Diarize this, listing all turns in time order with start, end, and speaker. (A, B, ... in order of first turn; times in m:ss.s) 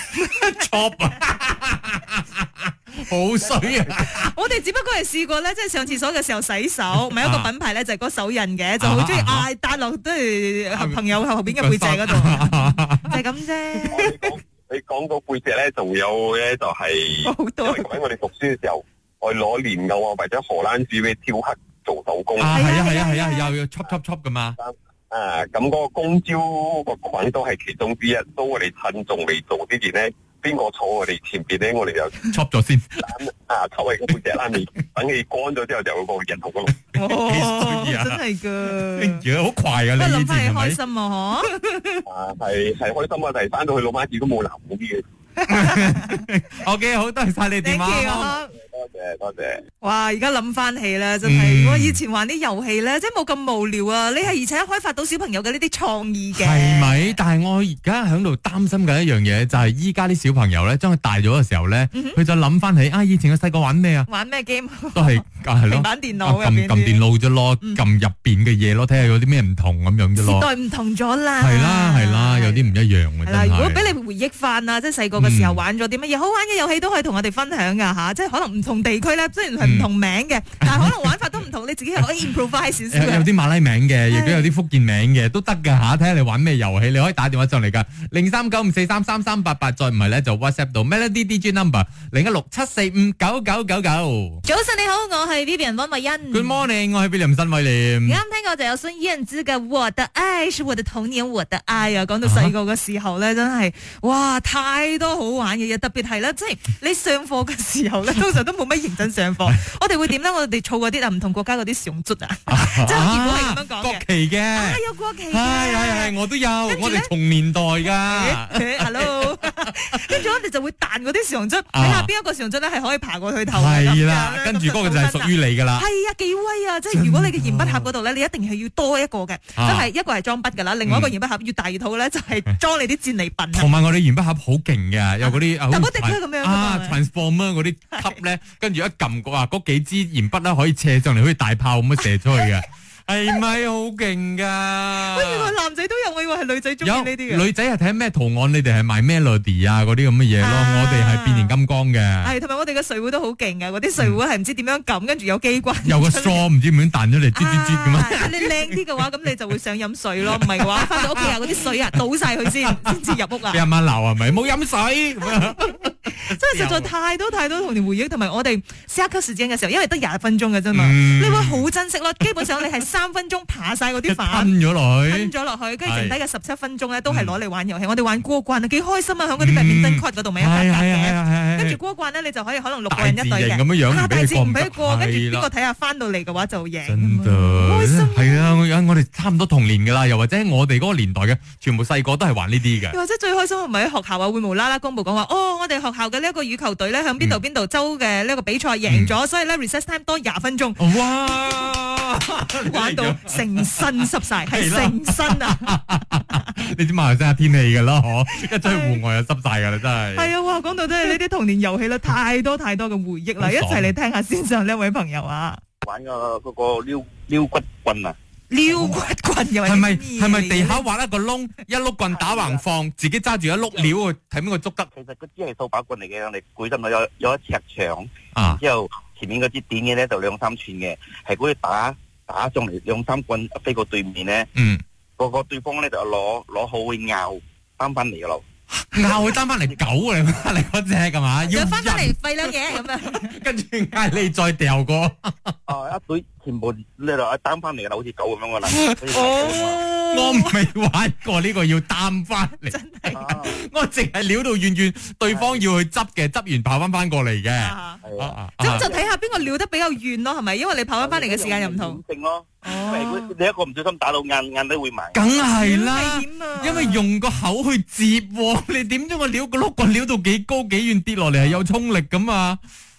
0:00.2-0:04.3 A
0:04.2-0:14.2 B
0:07.0-0:07.5 A
0:08.8-0:09.5 A
0:10.7-0:13.2 A
0:13.9-0:22.8 C
0:17.2-0:17.9 B
0:22.4-0:24.6 A
0:22.5-0:23.5 B
0:24.6-0:32.3 C
0:32.3-0:33.1 A
0:33.0-0:36.7 C
0:36.8-0:40.8 A
0:37.0-0:39.2 B
0:40.0-0:42.0 B
0:42.1-0:45.0 C
0:45.5-0:48.4 A
0:45.5-0:46.2 B
0:47.6-0:48.5 B
0:48.6-0:49.6 C
0:49.8-0:57.2 B
0:51.2-0:52.0 A
0:56.4-1:04.1 A
1:01.9-1:02.2 B
1:04.1-1:07.0 B
1:04.9-1:10.5 A
1:10.2-1:12.7 B
1:11.4-1:14.0 A
1:13.2-1:23.3 B
1:15.2-1:15.6 A
1:19.6-1:19.9 A
1:20.6-1:21.2 A
1:22.0-1:22.3 A
1:22.9-1:34.4 A
1:24.1-1:24.5 B
1:34.4-1:36.6 B
1:36.3-1:38.2 A
1:38.0-1:56.2 B
1:42.2-1:42.5 A
1:52.5-2:00.3 A
1:56.7-1:57.1 B
1:57.9-2:13.7 B
2:01.7-2:02.1 A
2:03.5-2:05.9 A
2:06.9-2:07.9 A
2:09.6-2:09.9 A
2:10.8-2:11.1 A
2:13.5-2:25.5 A
2:15.2-2:17.0 B
2:18.0-2:18.2 B
2:25.0-2:27.5 B
2:26.8-2:32.3 A
2:30.4-2:31.5 B
2:32.2-2:36.4 B
2:35.8-2:38.8 A
2:37.3-2:43.6 B
2:40.3-2:41.5 A
2:43.5-2:46.9 A
2:45.3-2:45.6 B
2:46.2-2:54.5 B
2:50.7-2:51.6 A
2:54.1-2:55.3 A
2:55.0-3:08.6 B
2:55.8-2:56.2 A
2:57.1-2:57.4 A
2:59.4-3:01.8 A
3:02.9-3:05.5 A
3:06.9-3:13.0 A
3:12.9-3:20.8 B
3:18.9-3:19.1 A
3:20.8-3:30.3 A
3:22.6-3:26.4 B
3:28.6-3:29.0 B
3:30.2-3:35.6 B
3:33.4-3:33.9 A
3:35.8-3:38.2 D
3:38.5-3:40.8 B
3:39.6-3:44.9 A
3:42.1-3:42.6 D
3:44.9-3:54.5 D
3:48.3-3:48.6 A
3:54.6-3:54.8 A
3:55.2-3:58.4 D
3:58.7-4:02.2 A
3:59.6-4:00.5 D
4:01.5-4:03.4 B
4:02.8-4:05.6 A
4:05.7-4:09.8 D
4:08.7-4:18.9 A
4:09.1-4:10.6 B
4:12.7-4:13.2 B
4:13.1-4:13.6 D
4:15.3-4:15.6 D
4:17.6-4:18.0 B
4:18.0-4:19.5 D
4:18.6-4:22.0 B
4:21.0-4:25.4 D
4:22.6-4:23.3 B
4:25.1-4:32.6 A
4:25.6-4:27.0 B
4:31.3-4:31.6 D